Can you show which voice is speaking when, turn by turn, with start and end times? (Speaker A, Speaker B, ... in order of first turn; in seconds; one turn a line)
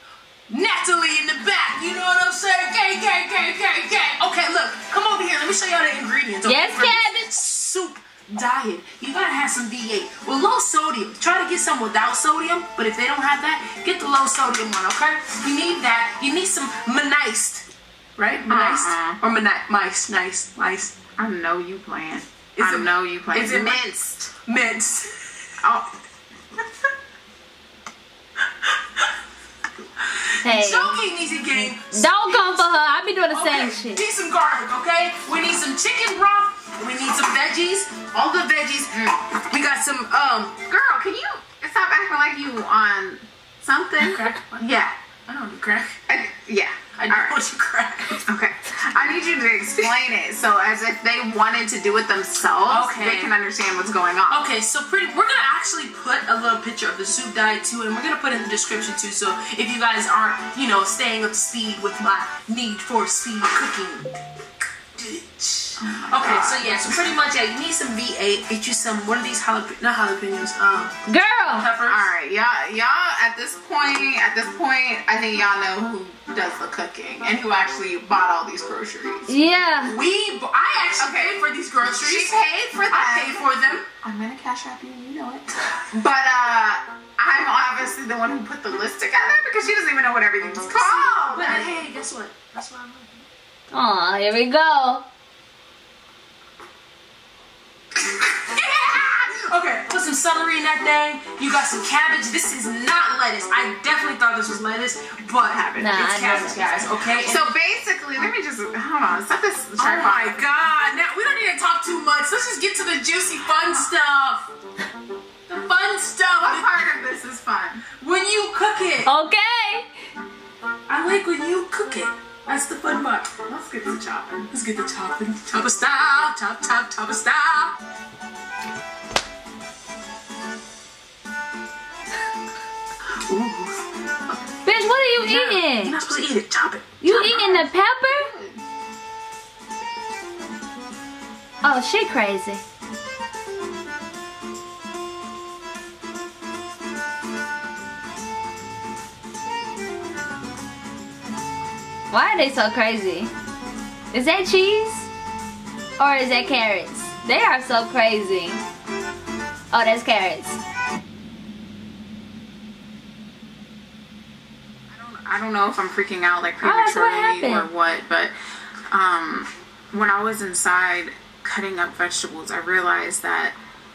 Speaker A: 0.5-21.0
Speaker B: 6.5-7.3
Speaker C: 18.5-19.2
Speaker C: 21.2-24.3
Speaker A: 22.6-23.8
Speaker A: 24.4-25.3
Speaker C: 25.6-25.9
Speaker A: 30.0-40.6
Speaker B: 30.4-31.0
Speaker B: 31.8-34.0
Speaker C: 38.9-39.2
Speaker C: 40.7-45.0
Speaker A: 44.0-44.7
Speaker A: 45.3-46.0
Speaker C: 46.1-47.4
Speaker A: 47.0-48.3
Speaker C: 48.3-54.5
Speaker A: 52.7-53.3
Speaker A: 54.3-64.1
Speaker A: 65.0-72.1
Speaker C: 65.8-67.0
Speaker B: 71.1-71.7
Speaker C: 71.8-79.3
Speaker B: 79.3-80.0
Speaker A: 79.8-83.9
Speaker C: 81.0-83.5
Speaker C: 84.0-91.8
Speaker A: 90.7-93.2
Speaker B: 93.7-95.1
Speaker A: 98.0-107.5
Speaker B: 105.8-107.1
Speaker C: 107.2-110.5
Speaker A: 109.8-114.5
Speaker A: 115.5-116.8
Speaker C: 116.4-117.8
Speaker A: 118.0-119.1
Speaker B: 119.1-119.9
Speaker A: 120.9-127.8
Speaker A: 133.2-134.4
Speaker B: 134.7-136.0
Speaker A: 135.1-137.6
Speaker B: 137.0-138.3
Speaker C: 137.2-138.6
Speaker B: 141.6-142.6
Speaker B: 152.1-153.3
Speaker B: 154.1-155.1
Speaker B: 156.0-158.6
Speaker B: 159.7-160.6
Speaker C: 164.9-168.3
Speaker B: 166.6-167.7
Speaker C: 168.9-173.6